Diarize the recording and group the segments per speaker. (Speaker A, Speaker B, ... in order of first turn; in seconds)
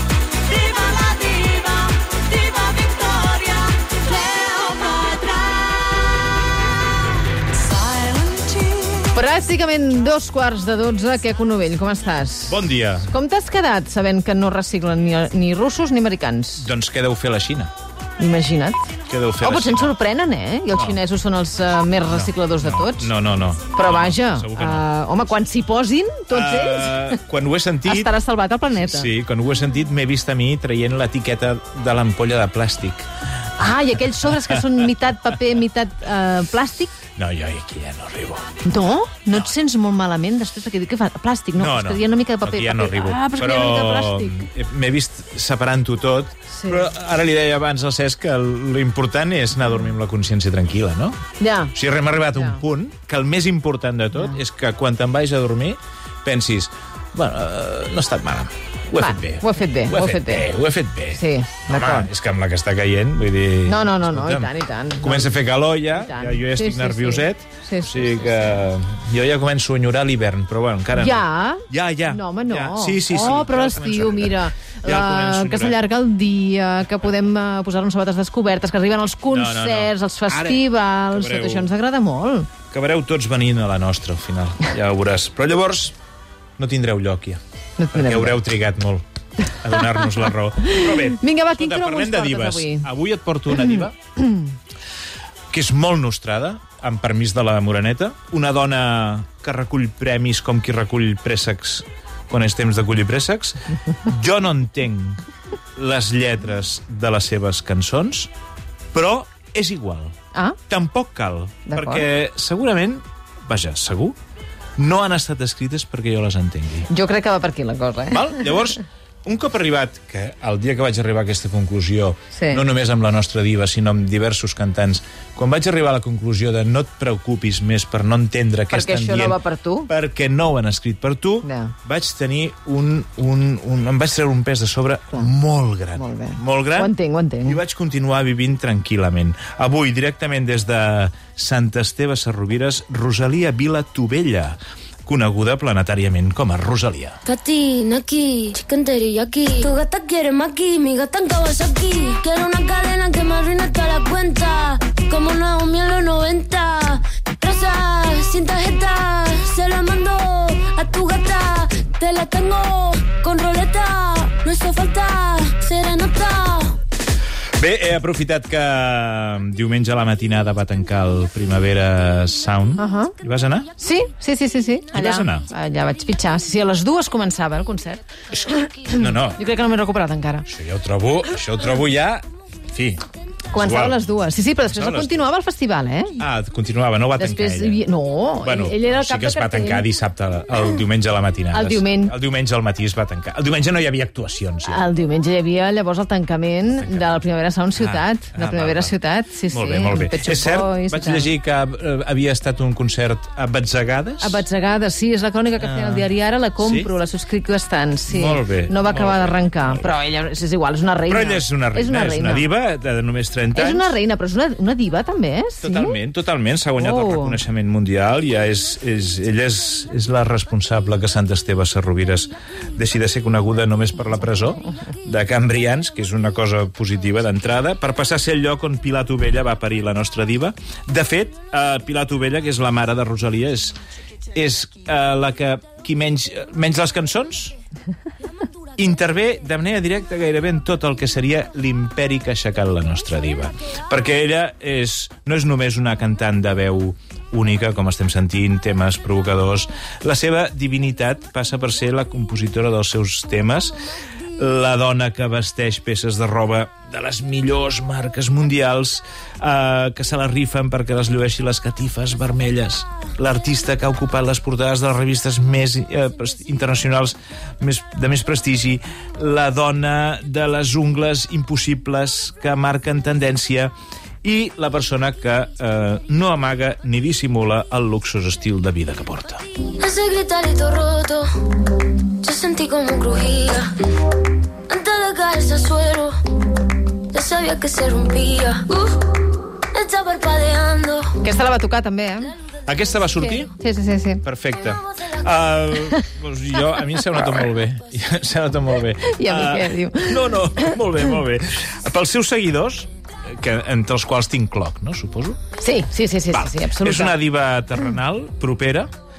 Speaker A: 0.5-6.3, 8.0-8.9, 147.2-166.8, 279.8-281.5, 282.2-283.9, 284.7-286.2, 287.1-291.2
Speaker B: 9.0-16.7, 18.2-18.8, 19.4-23.1, 23.7-27.2, 27.9-29.1, 33.6-37.0, 38.6-44.5, 46.5-46.9, 51.4-51.8, 59.0-60.5, 61.1-62.1, 63.7-68.6, 71.0-82.5, 87.8-88.4, 89.7-92.9, 93.8-94.5, 111.7-112.1, 116.9-118.5, 122.3-122.6, 128.7-129.9, 131.4-131.7, 135.9-137.6, 172.8-173.1, 173.8-180.5, 183.5-186.2, 187.2-189.8, 191.5-192.1, 194.7-201.3, 204.2-212.5, 213.5-216.0, 216.8-217.4, 291.2-292.3, 293.2-294.2, 299.0-301.1, 305.6-307.2
Speaker C: 12.5-13.1, 16.6-17.7, 19.1-19.9, 20.7-21.0, 22.0-24.9, 26.3-28.2, 28.7-33.1, 34.3-34.6, 37.2-38.5, 41.6-51.2, 51.8-75.8, 79.3-81.7, 82.7-86.0, 86.6-87.4, 87.9-89.0, 89.6-94.0, 95.5-105.2, 105.8-108.3, 108.9-110.1, 110.7-114.2, 114.8-116.9, 118.1-147.2, 167.6-173.7, 174.9-175.5, 178.9-179.4, 180.5-184.0, 184.6-185.3, 186.2-187.8, 188.4-194.8, 196.8-197.2, 197.8-198.9, 199.5-204.4, 205.6-206.9, 208.1-209.9, 211.1-213.9, 215.6-233.8, 234.3-237.5, 238.8-253.8, 254.3-279.4, 292.7-293.5, 294.2-305.4, 306.3-308.9